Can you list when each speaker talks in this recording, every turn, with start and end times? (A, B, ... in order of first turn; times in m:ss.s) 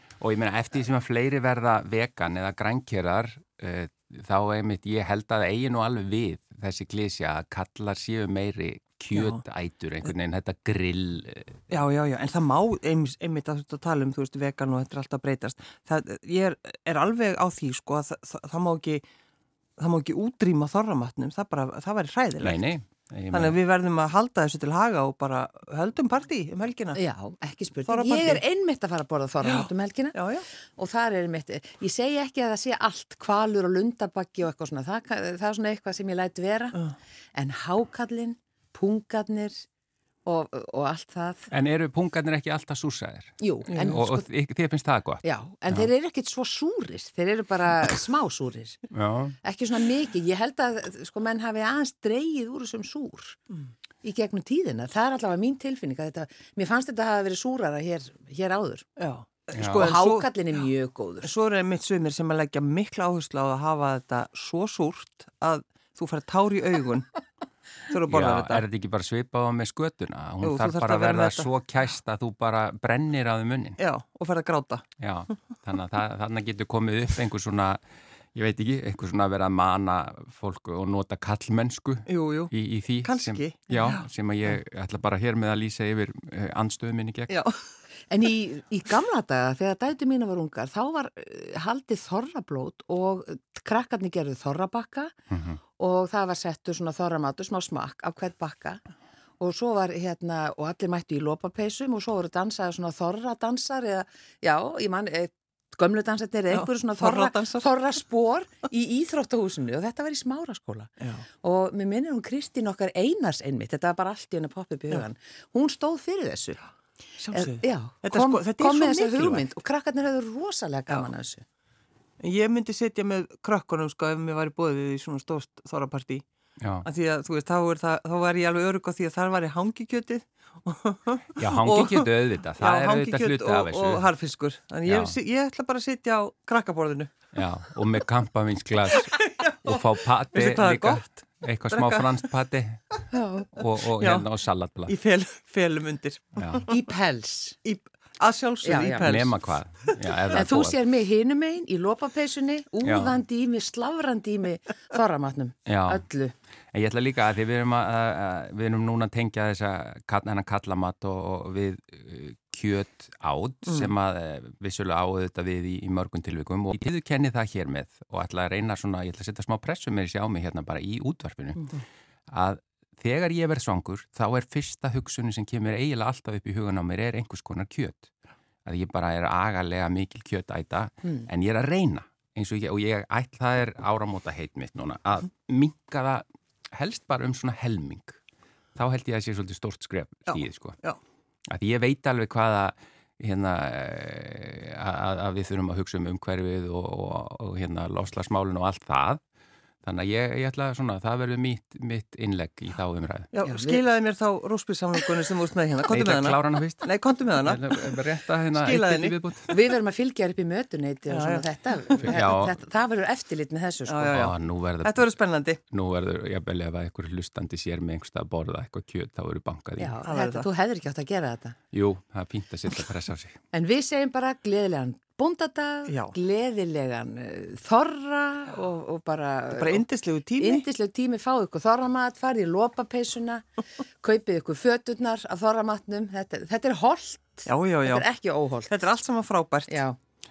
0:00.2-0:11.6 A
0:09.2-0:09.4 B
0:11.7-0:19.0 B
0:19.8-0:22.6 B
0:22.4-0:23.6 A
0:23.3-0:27.0 B
0:27.0-0:30.2 C
0:27.9-0:28.4 B
0:29.4-0:30.5 B
0:30.8-0:36.8 C
0:37.3-0:39.6 C
0:40.2-0:41.5 C
0:41.5-0:45.9 A
0:43.4-0:44.3 C
0:45.2-0:48.8 C
0:48.9-0:49.4 A
0:49.4-0:53.4 C
0:54.0-0:58.9 C
0:59.0-1:00.3 B
0:59.5-0:59.8 A
0:59.7-1:01.3 C
1:01.2-1:07.2 B
1:07.9-1:08.6 B
1:08.1-1:13.8 A
1:10.4-1:11.5 B
1:13.8-1:14.8 B
1:15.0-1:17.8 A
1:18.3-1:27.3 A
1:22.1-1:24.1 B
1:27.3-1:27.5 B
1:28.1-1:35.1 C
1:35.3-1:35.6 A
1:35.8-1:38.8 C
1:39.4-1:56.6 C
1:46.5-1:47.7 B
1:57.2-1:59.5 B
1:57.3-2:01.4 C
2:02.2-2:06.2 B
2:06.6-2:06.9 A
2:06.8-2:17.1 B
2:11.4-2:14.1 A
2:14.8-2:15.2 A
2:17.3-2:22.8 A
2:18.9-2:19.8 B
2:20.3-2:22.2 B
2:23.1-2:23.5 C
2:23.5-2:24.9 A
2:24.0-2:24.3 B
2:24.9-2:26.7 B
2:26.4-2:26.7 A
2:26.7-2:27.6 C
2:27.6-2:29.5 B
2:28.6-2:29.1 C
2:29.0-2:30.8 A
2:30.3-2:36.4 C
2:32.8-2:33.2 A
2:35.7-2:36.0 A
2:36.7-2:51.7 A
2:52.3-2:58.1 A
2:58.6-3:08.2 A
3:08.8-3:10.8 A
3:10.3-3:11.0 B
3:11.5-3:19.2 A
3:19.8-3:23.3 A
3:23.3-3:28.0 B
3:23.4-3:23.8 C
3:25.9-3:29.6 A
3:28.5-3:29.2 B
3:29.5-3:34.3 C
3:31.1-3:31.5 B
3:32.0-3:32.6 A
3:33.9-3:35.6 B
3:34.1-3:35.2 A
3:35.7-3:40.0 A
3:39.8-3:41.6 C
3:40.0-3:40.5 B
3:41.7-3:43.4 A
3:43.5-3:49.8 C
3:45.9-3:46.2 B
3:49.5-3:50.7 B
3:50.4-3:53.4 C
3:54.0-3:58.7 C
3:57.5-3:58.1 B
3:58.7-3:59.8 B
3:59.7-4:00.0 C